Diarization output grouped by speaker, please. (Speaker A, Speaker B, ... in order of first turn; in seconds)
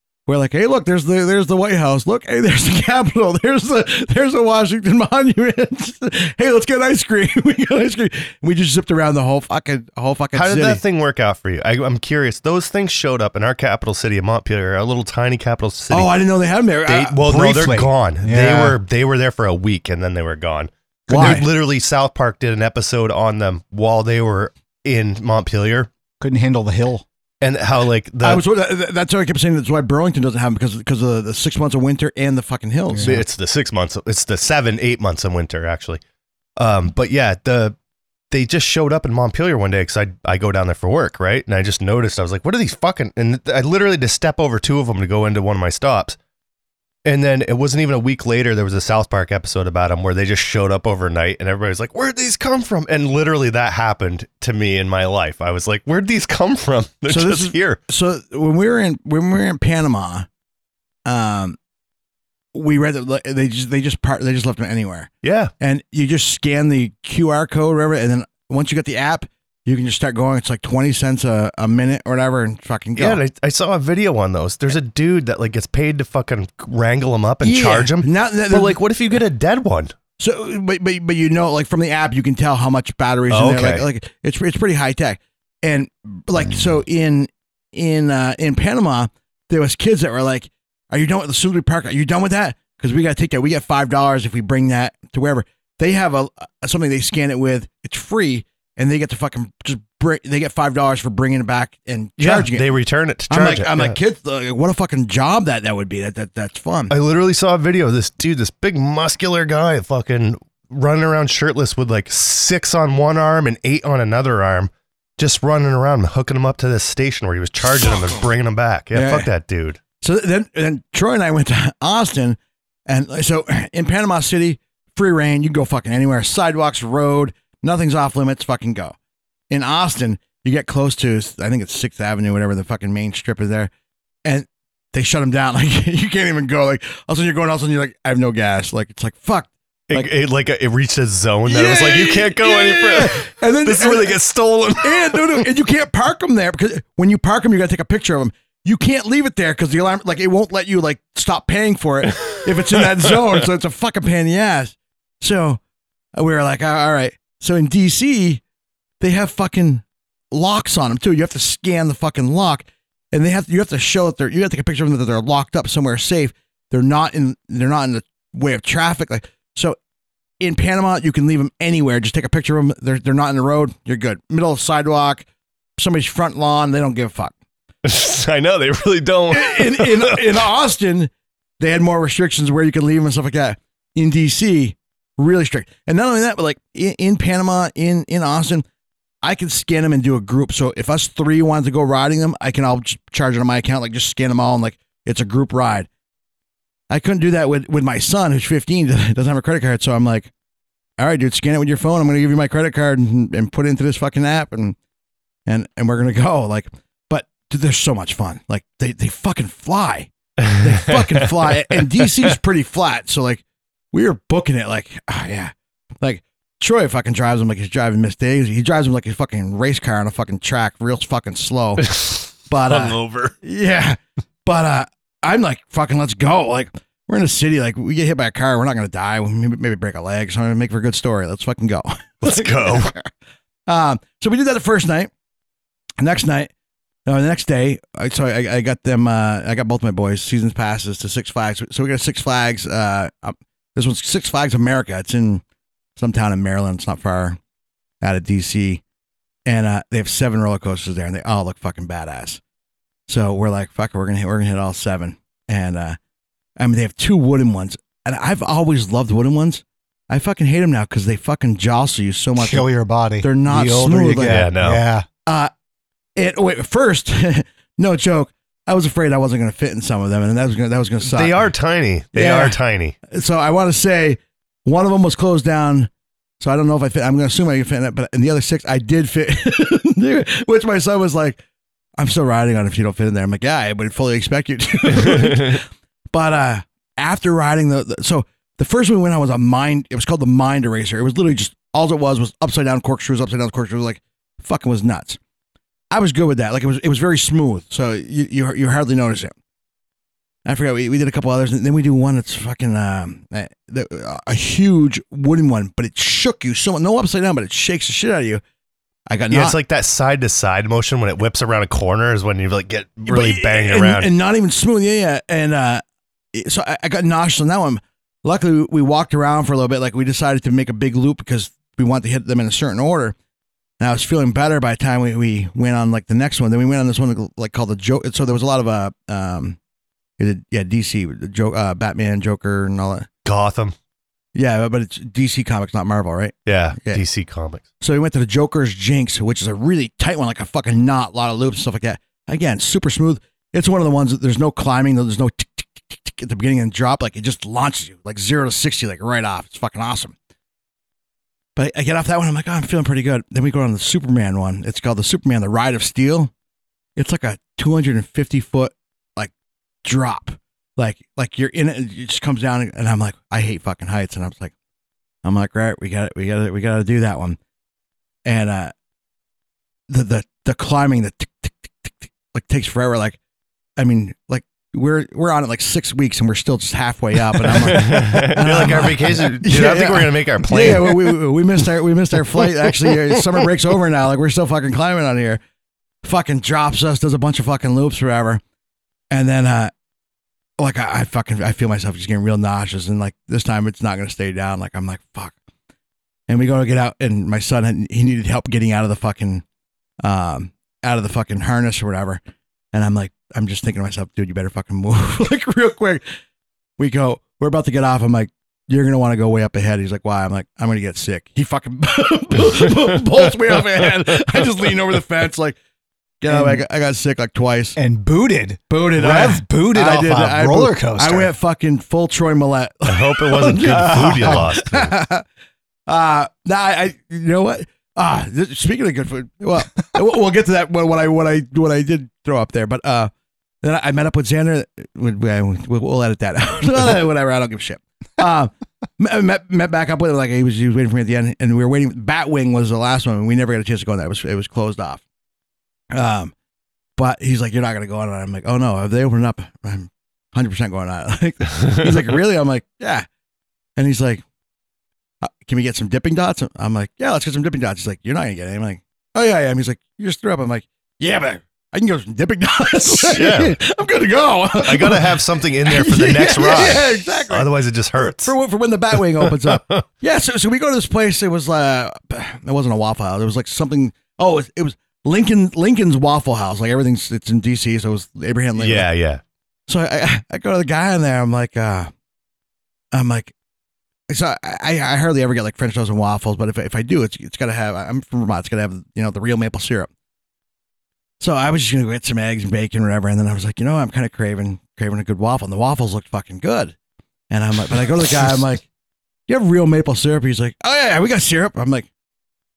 Speaker A: 0.3-10.8, 15.9-17.2, 21.1-21.5, 28.2-33.2, 57.1-60.3, 61.0-61.6, 62.5-73.2, 77.4-78.8, 80.2-102.7, 103.3-106.9, 118.9-119.3, 120.0-128.9, 129.5-133.7, 134.2-140.1, 141.4-144.2, 144.8-155.6, 156.2-158.4, 159.0-169.8, 170.4-175.2, 175.8-177.3, 179.3-188.6, 189.2-195.9, 196.9-200.3, 201.0-204.8, 205.4-233.1, 233.7-235.1, 236.0-236.5, 237.1-245.4, 246.0-247.4, 248.0-248.8, 249.4-252.4, 253.1-256.0, 256.6-262.7, 263.2-264.5, 266.1-271.5, 272.1-272.6, 273.1-281.4, 282.0-295.2, 295.9-299.3, 300.4-308.4, 309.1-309.6, 313.1-315.8, 316.3-323.1, 323.8-329.6, 330.2-333.1, 334.3-337.0, 337.8-350.1, 351.6-356.3, 356.9-359.3, 359.8-364.5, 365.2-367.4, 368.2-368.7, 369.9-373.2, 373.8-385.4, 386.0-388.4, 389.1-389.7, 390.6-395.3, 396.3-399.4, 400.0-402.2, 402.7-406.0, 406.8-415.6, 416.2-417.8, 418.7-425.2, 425.9-433.1, 433.6-445.0, 445.9-446.3, 447.0-453.1, 453.8-454.2, 455.2-478.9, 479.7-481.9, 482.9-483.3, 484.1-489.9, 491.2-496.7, 497.3-498.6, 499.3-501.9
Speaker B: 10.3-16.2, 16.9-25.9, 27.4-28.4, 33.0-36.0, 36.6-37.7, 38.3-46.2, 47.0-57.8, 65.2-65.5, 73.0-79.9, 83.3-83.9, 102.2-104.0, 106.9-119.8, 139.9-145.4, 177.8-180.2, 210.4-210.9, 221.8-223.3, 232.2-232.9, 264.2-264.8, 271.0-272.9, 285.0-285.6, 309.3-314.1, 333.2-333.7, 336.4-337.6, 377.5-381.2, 422.9-425.0, 463.1-463.6, 464.6-468.3, 469.2-469.8, 478.6-479.2
Speaker C: 17.2-18.8, 26.2-27.0, 32.9-33.2, 262.4-265.1, 416.3-416.6, 417.8-421.3, 423.9-424.4